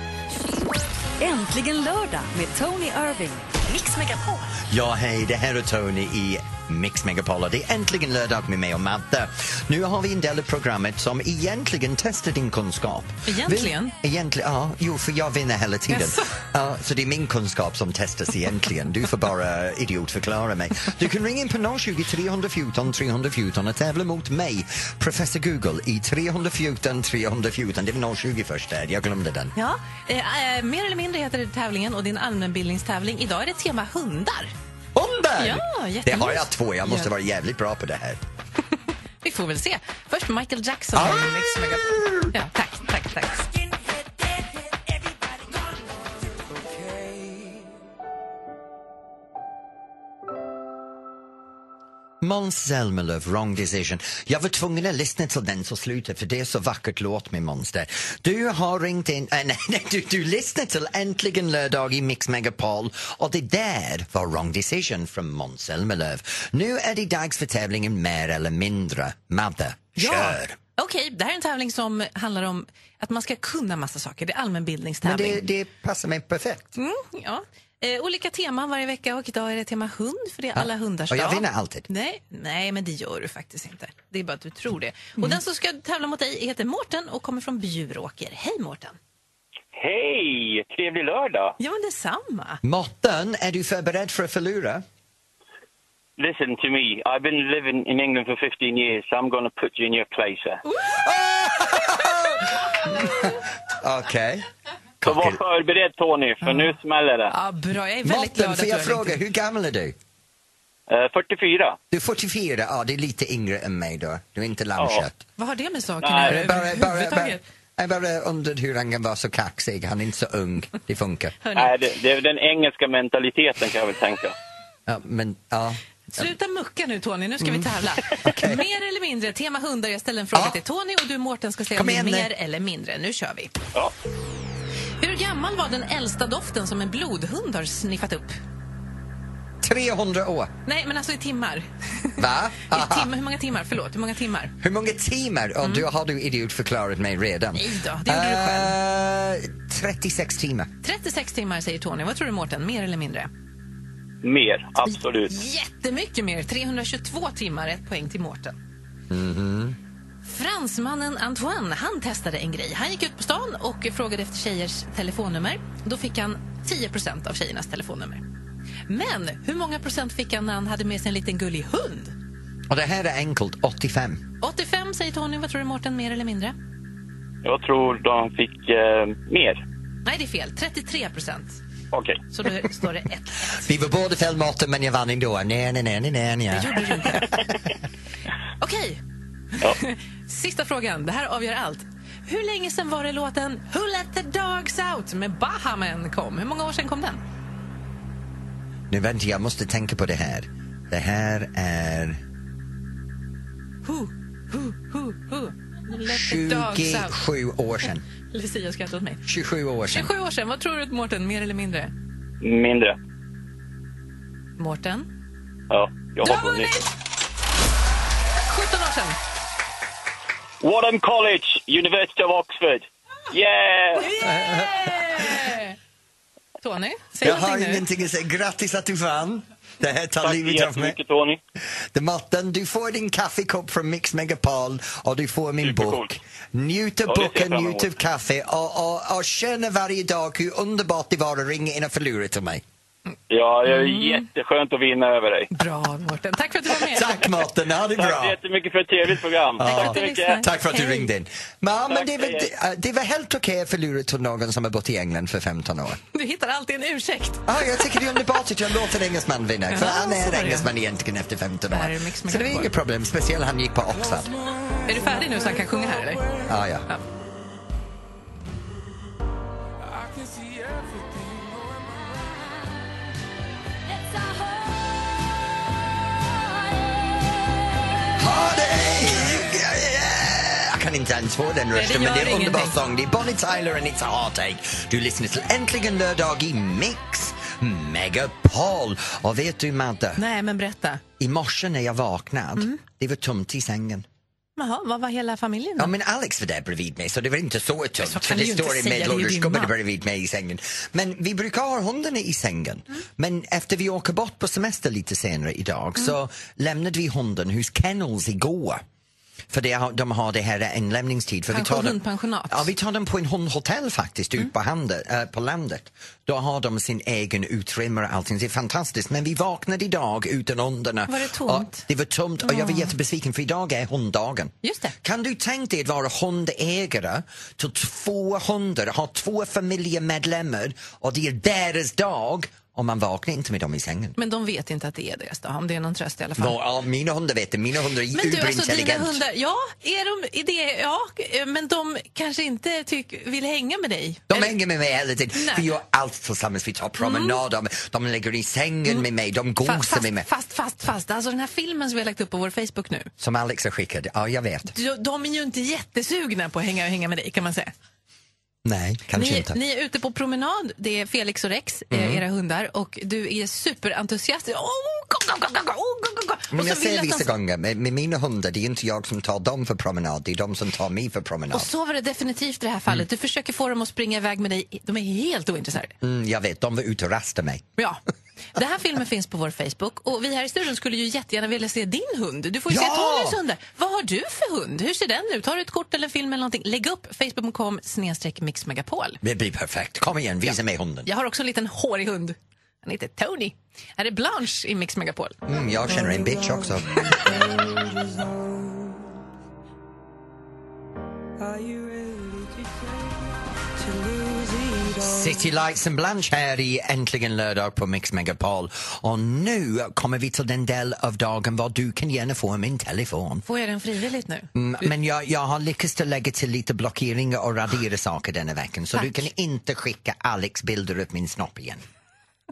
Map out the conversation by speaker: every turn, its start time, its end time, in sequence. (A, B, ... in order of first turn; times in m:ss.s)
0:01.2-0:04.6 A
0:04.6-0:29.5 B
0:13.3-0:13.9 C
0:15.9-0:16.3 C
0:29.6-0:34.5 C
0:34.9-0:38.2 B
0:35.4-0:37.1 C
0:39.2-0:43.5 C
0:40.9-0:42.3 B
0:44.0-0:44.4 D
0:46.3-0:47.7 D
0:52.2-1:10.6 B
1:10.0-1:15.4 C
1:15.0-1:16.8 B
1:16.8-1:29.0 C
1:20.5-1:21.9 B
1:29.7-1:31.6 E
1:31.6-1:32.6 C
1:32.6-1:34.8 B
1:36.2-1:40.6 E
1:40.6-1:41.0 C
1:40.9-1:44.5 B
1:45.0-1:45.4 B
1:45.0-1:47.3 E
1:46.4-1:46.7 C
1:47.3-1:49.2 C
1:48.0-1:50.0 B
1:50.9-1:51.8 E
1:51.9-1:55.2 B
1:54.8-1:55.0 E
1:55.4-1:57.4 C
1:56.0-1:56.5 E
1:56.2-2:01.3 B
2:01.4-2:01.7 C
2:01.6-2:04.3 E
2:04.8-2:06.3 B
2:06.1-2:13.5 C
2:07.4-2:07.7 B
2:08.2-2:08.6 B
2:11.7-2:12.3 B
2:15.0-2:18.4 C
2:19.6-2:20.5 B
2:20.6-2:24.5 C
2:22.2-2:23.1 B
2:24.6-2:30.7 B
2:25.6-2:25.9 C
2:27.5-2:28.7 C
2:30.8-2:33.3 C
2:34.2-2:35.3 E
2:34.8-2:38.6 C
2:39.1-2:39.8 B
2:40.2-2:48.2 C
2:48.9-2:52.2 C
2:52.7-2:54.2 B
2:54.4-2:56.6 C
2:57.4-2:59.6 E
3:00.0-3:01.6 C
3:01.9-3:02.2 E
3:02.3-3:03.7 C
3:03.6-3:07.4 B
3:06.5-3:07.4 C
3:08.6-3:09.0 C
3:09.6-3:17.2 C
3:18.9-3:22.2 B
3:23.8-3:27.2 C
3:26.0-3:28.0 B
3:28.3-3:29.2 C
3:29.2-3:30.1 B
3:29.9-3:31.9 C
3:32.4-3:33.0 E
3:34.6-3:35.1 C
3:35.7-3:36.7 E
3:36.2-3:36.9 C
3:38.4-3:39.2 C
3:40.6-3:44.1 E
3:43.9-3:45.8 C
3:44.2-3:45.4 B
3:46.6-3:47.8 C
3:47.2-3:51.0 B
3:50.2-3:51.4 E
3:51.9-4:02.6 B
3:55.6-3:56.1 E
3:57.0-3:57.9 E
4:03.3-4:05.5 E
4:03.6-4:04.2 C
4:05.5-4:07.3 C
4:06.7-4:08.4 B
4:08.0-4:10.4 E
4:09.6-4:16.0 B
4:09.6-4:11.1 C
4:11.9-4:12.5 E
4:16.1-4:17.6 C
4:17.4-4:24.3 B
4:19.7-4:20.7 C
4:21.7-4:22.7 C
4:23.9-4:26.6 D
4:24.8-4:26.2 C
4:26.4-4:26.9 B
4:29.8-4:32.5 D
4:34.0-4:34.6 A
4:38.2-4:50.2 B
4:41.7-4:42.8 C
4:50.2-4:51.0 C
4:51.2-4:54.0 B
4:54.6-4:55.9 C
4:55.8-5:08.8 B
4:58.0-4:59.7 C
5:09.5-5:34.2 B
5:11.5-5:12.7 C
5:21.1-5:21.8 C
5:22.4-5:22.9 C
5:24.6-5:24.9 C
5:34.2-5:36.6 C
5:36.4-5:39.2 B
5:38.1-5:44.5 C
5:44.3-5:50.3 B
5:45.3-5:45.7 C
5:47.0-5:47.4 C
5:49.6-5:53.1 C
5:53.2-5:54.7 B
5:54.7-5:57.7 C
5:58.6-5:59.6 B
5:59.1-6:07.3 C
6:01.9-6:02.2 B
6:06.5-6:11.7 B
6:11.5-6:15.9 C
6:16.0-6:17.6 B
6:17.8-6:18.0 C
6:18.5-6:29.2 C
6:22.7-6:23.4 B
6:29.2-6:31.1 B
6:30.4-6:35.4 C
6:35.4-6:37.2 B
6:35.7-6:39.1 D
6:41.4-6:45.5 D
6:45.0-6:53.4 B
6:53.4-6:54.9 C
6:54.5-7:01.8 B
6:58.9-6:59.2 C